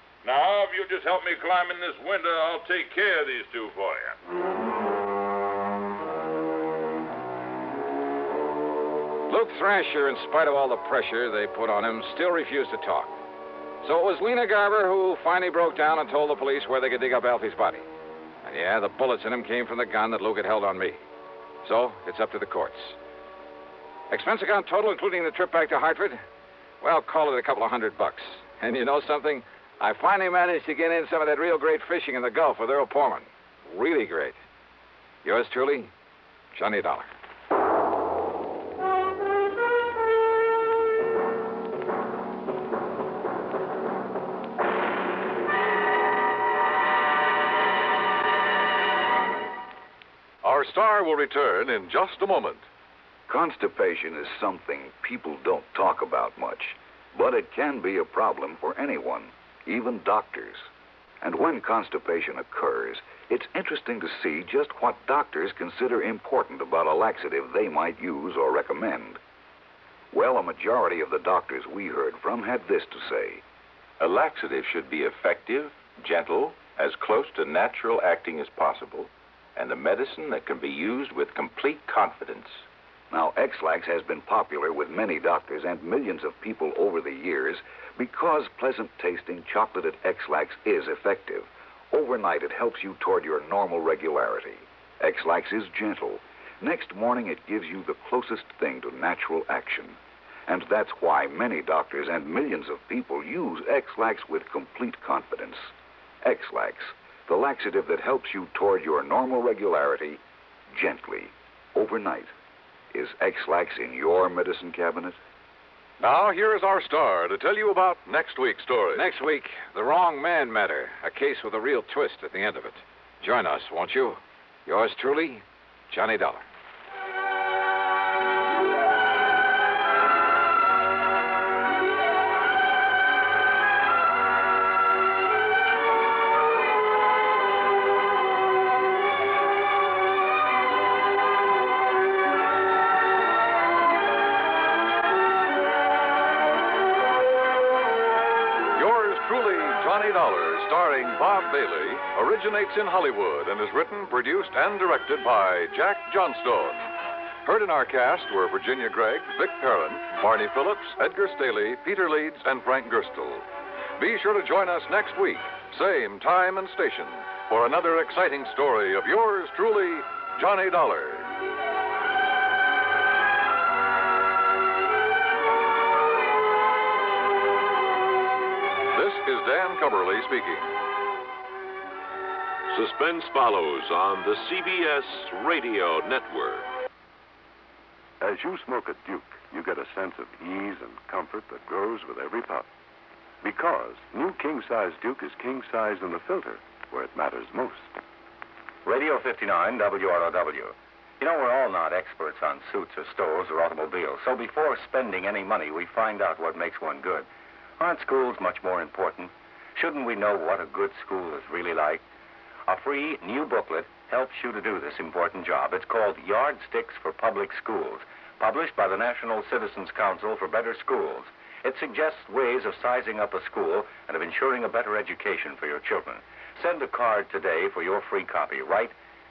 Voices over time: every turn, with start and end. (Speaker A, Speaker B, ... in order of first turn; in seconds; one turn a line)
Speaker A: 0.2-4.2
Speaker B: 9.3-13.1
Speaker B: 13.8-17.9
Speaker B: 18.4-21.0
Speaker B: 21.6-23.0
Speaker B: 24.1-26.2
Speaker B: 26.8-34.4
Speaker B: 35.2-35.9
Speaker B: 36.5-37.1
Speaker C: 50.4-52.6
Speaker D: 53.3-60.6
Speaker D: 61.2-69.2
Speaker D: 70.1-73.4
Speaker E: 74.0-82.6
Speaker D: 83.1-105.7
Speaker D: 106.2-110.2
Speaker D: 110.7-112.3
Speaker D: 112.9-115.2
Speaker C: 116.0-119.0
Speaker B: 118.9-126.4
Speaker C: 148.8-156.9
Speaker C: 157.4-163.4
Speaker C: 164.0-171.3
Speaker C: 178.9-180.7
Speaker F: 182.7-186.7
Speaker G: 188.2-192.7
Speaker G: 193.4-197.9
Speaker H: 198.8-207.2
Speaker H: 207.8-212.0
Speaker H: 212.7-228.9